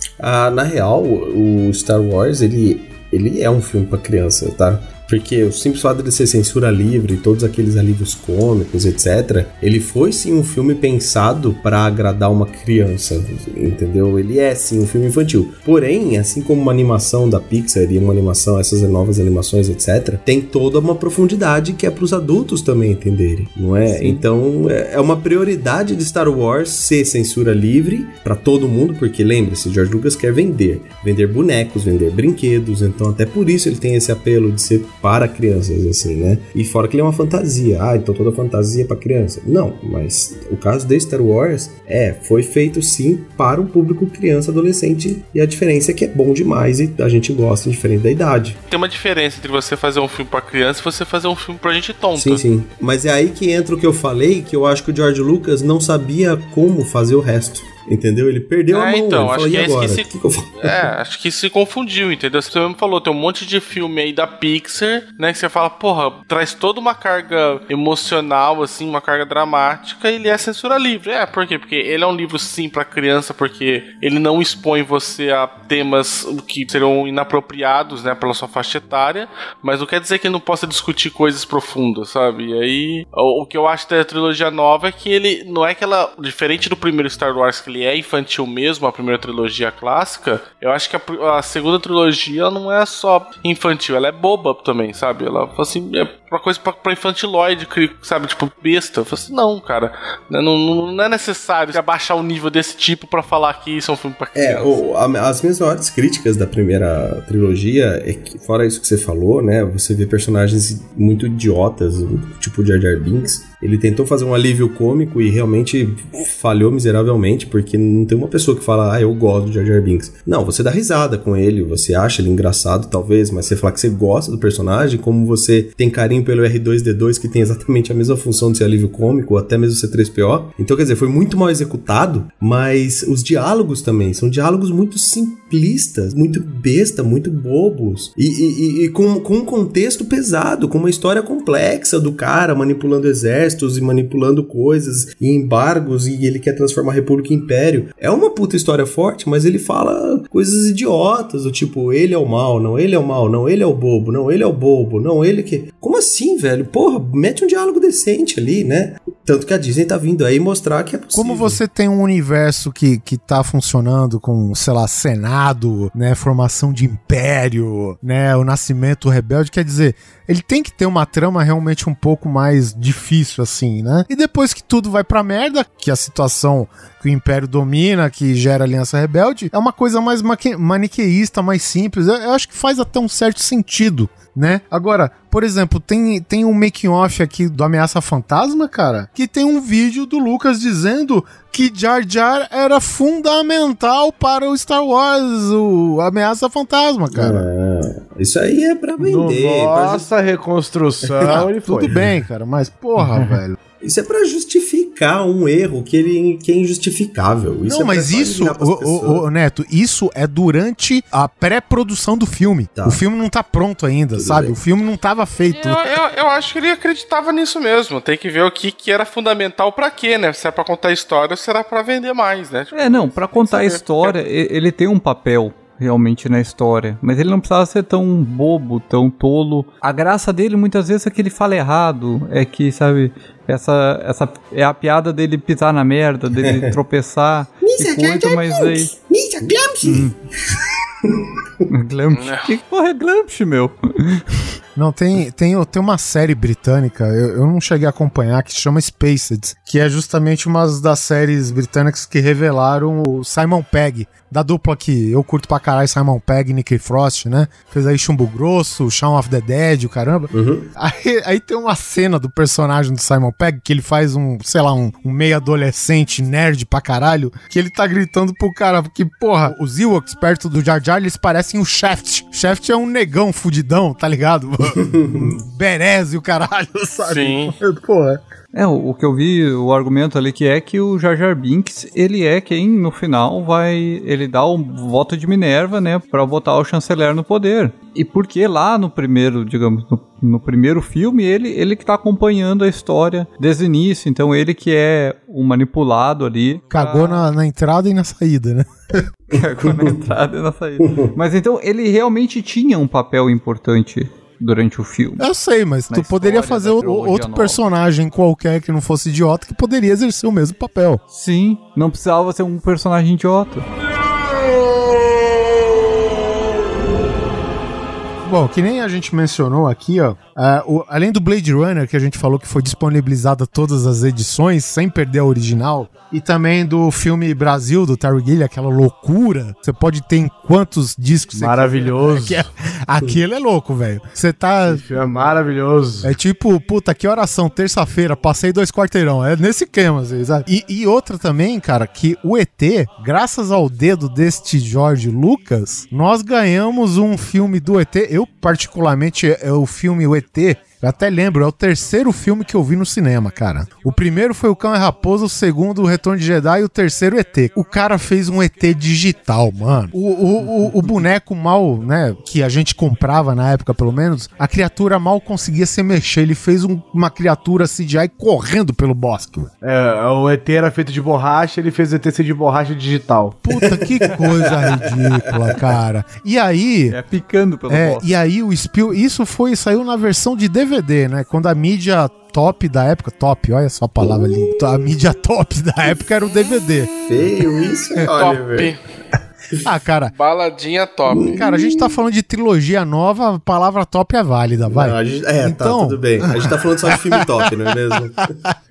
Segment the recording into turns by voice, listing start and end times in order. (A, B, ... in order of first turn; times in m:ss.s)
0:00.2-0:48.6 A
0:23.9-0:24.2 B
0:48.7-0:52.4 C
0:52.2-1:00.9 A
0:58.7-1:44.8 C
1:44.4-2:41.6 A
2:41.1-3:17.4 D
3:17.1-3:20.1 A
3:19.0-3:21.9 E
3:21.1-3:22.1 A
3:21.3-3:23.6 D
3:23.8-3:29.2 A
3:27.6-3:35.9 D
3:32.8-3:33.0 A
3:34.2-3:34.5 A
3:35.5-3:44.1 C
3:42.7-3:59.0 B
3:56.4-3:56.7 A
3:57.7-4:00.0 A
3:59.8-4:00.1 B
4:01.0-4:01.6 A
4:01.7-4:04.4 B
4:02.1-4:02.5 C
4:04.8-4:38.2 D
4:20.3-4:20.7 A
4:34.8-4:35.4 A
4:37.0-4:37.5 C
4:38.5-4:57.2 B
4:56.7-4:59.0 D
4:59.3-5:05.3 B
5:00.8-5:01.1 A
5:05.2-5:11.0 D
5:05.9-5:07.6 B
5:11.1-5:13.6 B
5:18.2-5:34.8 D
5:31.3-5:32.4 E
5:34.6-5:36.1 E
5:36.0-6:09.5 D
6:09.6-6:13.4 E
6:13.4-6:17.0 D
6:13.6-6:14.9 A
6:16.9-6:18.0 B
6:17.7-6:26.9 D
6:24.0-6:24.5 A
6:27.1-6:28.7 A
6:28.0-6:28.8 C
6:29.6-6:30.1 D
6:30.1-6:31.4 C
6:31.1-6:31.9 A
6:31.3-6:37.4 D
6:34.7-6:38.3 A